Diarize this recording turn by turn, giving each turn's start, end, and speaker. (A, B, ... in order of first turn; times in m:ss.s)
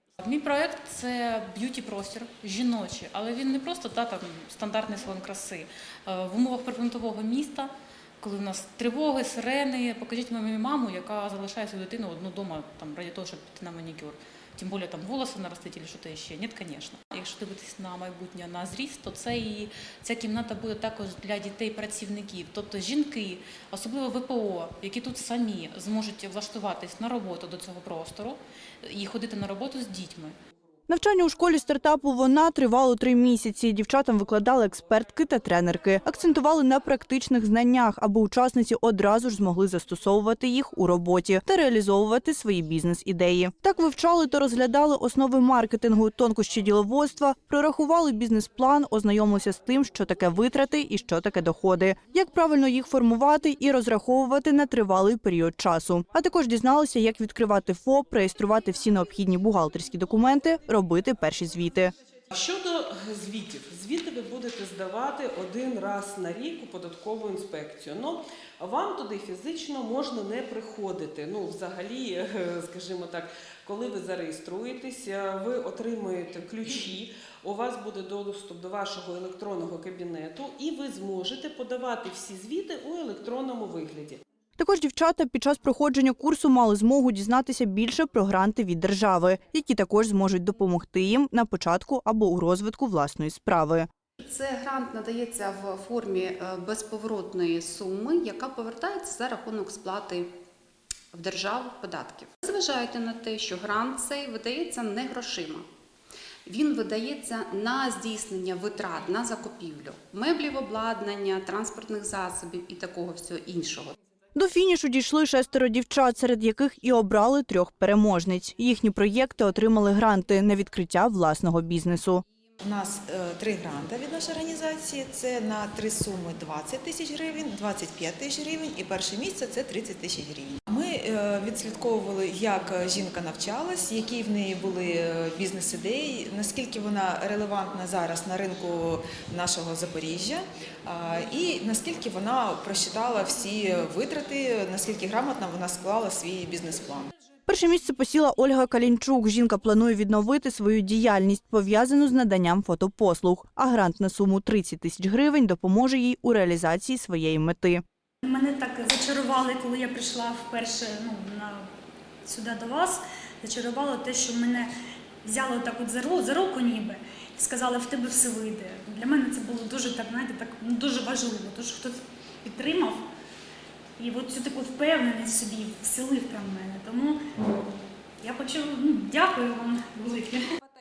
0:00.2-0:30.3 A
0:30.9-1:01.9 B
1:02.3-1:24.2 C
1:24.6-1:33.9 B
1:34.2-1:40.3 D
1:41.1-1:45.6 D
1:46.4-1:53.9 D
1:54.3-2:02.2 B
2:02.6-2:27.1 E
2:27.5-2:37.8 B
2:38.2-2:41.7 F
2:42.2-2:44.7 F
2:45.2-2:53.0 F
2:54.0-2:57.6 F
2:58.2-3:00.4 F